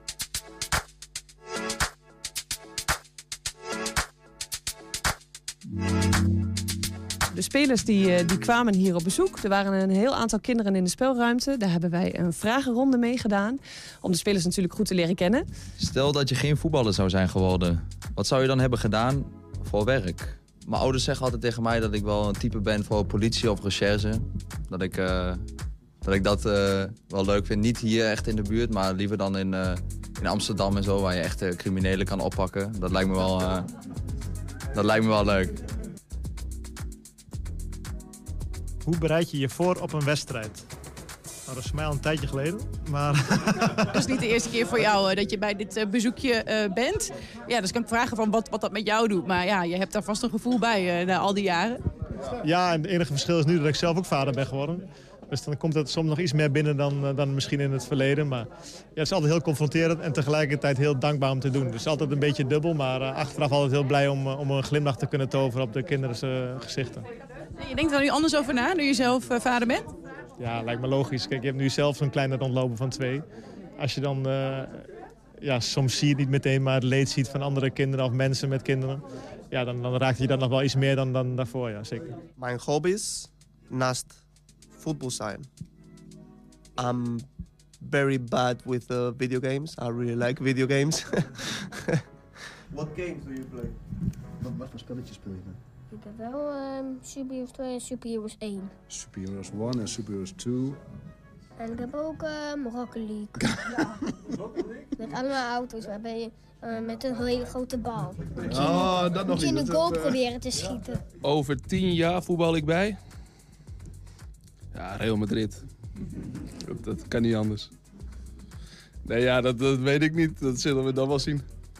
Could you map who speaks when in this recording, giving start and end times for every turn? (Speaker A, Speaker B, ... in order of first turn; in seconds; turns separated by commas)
Speaker A: 7.3-15.4, Speaker B: 15.8-25.4, Speaker B: 26.0-33.7, Speaker B: 34.7-35.6, Speaker C: 38.8-40.6, Speaker C: 41.5-43.9, Speaker D: 43.9-51.8, Speaker C: 52.4-67.0, Speaker D: 67.6-69.9, Speaker C: 70.4-73.2, Speaker C: 73.8-74.9, Speaker C: 75.4-82.2, Speaker E: 82.4-84.2, Speaker E: 84.7-85.5, Speaker E: 86.8-87.2, Speaker E: 87.8-91.9, Speaker F: 92.8-93.6, Speaker F: 94.5-95.5, Speaker G: 95.9-98.7, Speaker F: 98.9-100.8, Speaker G: 101.6-103.5, Speaker G: 105.0-111.0, Speaker F: 108.5-109.9, Speaker H: 111.2-113.0, Speaker H: 114.7-115.6, Speaker H: 116.7-117.7, Speaker H: 119.0-121.5